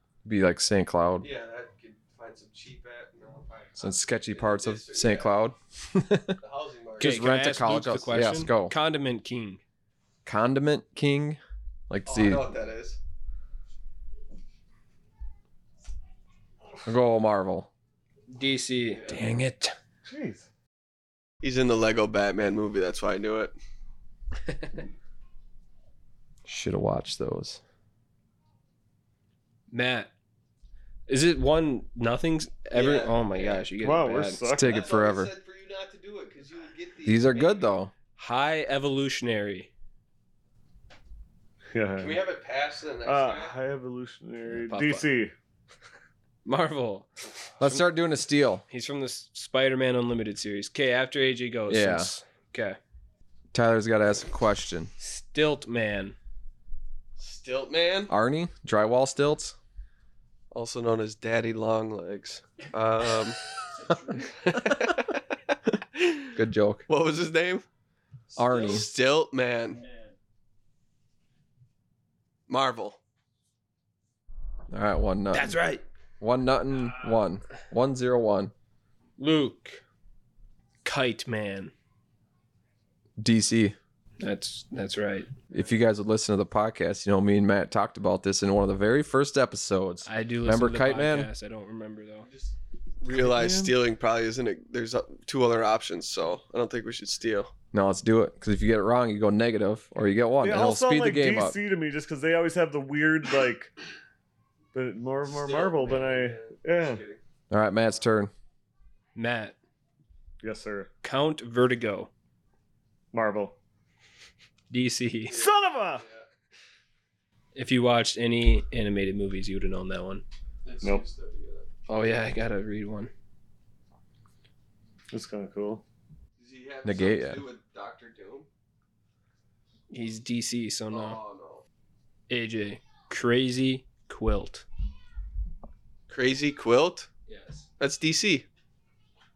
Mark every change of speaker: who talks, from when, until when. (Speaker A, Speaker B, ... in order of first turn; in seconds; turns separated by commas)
Speaker A: 0.2-1.3, Speaker B: 1.2-5.3, Speaker A: 3.8-6.4, Speaker B: 6.4-7.3, Speaker A: 7.0-8.8, Speaker C: 7.0-9.6, Speaker A: 10.2-12.5, Speaker B: 12.1-13.0, Speaker A: 16.9-17.7, Speaker C: 18.3-19.1, Speaker A: 19.1-19.7, Speaker D: 20.1-20.5, Speaker B: 21.4-23.6, Speaker C: 24.5-24.8, Speaker A: 26.4-27.6, Speaker C: 29.7-30.1, Speaker C: 31.1-34.4, Speaker B: 32.7-33.7, Speaker D: 33.8-34.8, Speaker A: 34.5-35.3, Speaker B: 34.6-37.6, Speaker A: 37.0-37.9, Speaker C: 38.1-39.7, Speaker D: 41.7-42.2, Speaker B: 42.0-43.6, Speaker D: 43.0-45.3, Speaker C: 44.5-45.1, Speaker C: 46.4-47.1, Speaker A: 47.6-48.6, Speaker C: 48.7-52.8, Speaker A: 51.7-52.1, Speaker A: 53.5-54.9, Speaker C: 55.0-56.1, Speaker B: 57.2-58.1, Speaker A: 58.1-59.6, Speaker B: 60.5-63.4, Speaker B: 64.5-65.1, Speaker A: 66.3-66.9, Speaker B: 66.9-67.6, Speaker A: 68.3-68.9, Speaker B: 68.3-69.8, Speaker B: 72.5-73.0, Speaker A: 74.7-75.6, Speaker C: 75.3-75.8, Speaker A: 76.2-78.5, Speaker C: 79.2-79.8, Speaker C: 80.8-81.7, Speaker A: 83.2-83.8, Speaker C: 84.2-85.3, Speaker A: 85.5-91.3, Speaker C: 90.0-92.3, Speaker B: 92.3-97.5, Speaker D: 93.1-93.7, Speaker A: 97.7-101.6, Speaker D: 100.4-103.7, Speaker D: 104.7-107.0, Speaker B: 105.2-107.2, Speaker A: 107.5-108.3, Speaker C: 109.1-109.5, Speaker D: 110.4-110.9, Speaker C: 111.0-112.1, Speaker D: 113.1-113.5, Speaker C: 114.7-115.4, Speaker D: 115.3-116.0, Speaker B: 115.3-116.2, Speaker C: 117.5-120.2, Speaker B: 120.6-121.7, Speaker C: 121.9-123.1, Speaker D: 125.1-125.8, Speaker B: 126.4-128.5, Speaker A: 126.8-127.4, Speaker C: 129.9-131.2, Speaker B: 130.9-131.6, Speaker C: 132.3-134.6, Speaker B: 136.1-137.1, Speaker C: 137.3-137.7, Speaker B: 137.8-138.4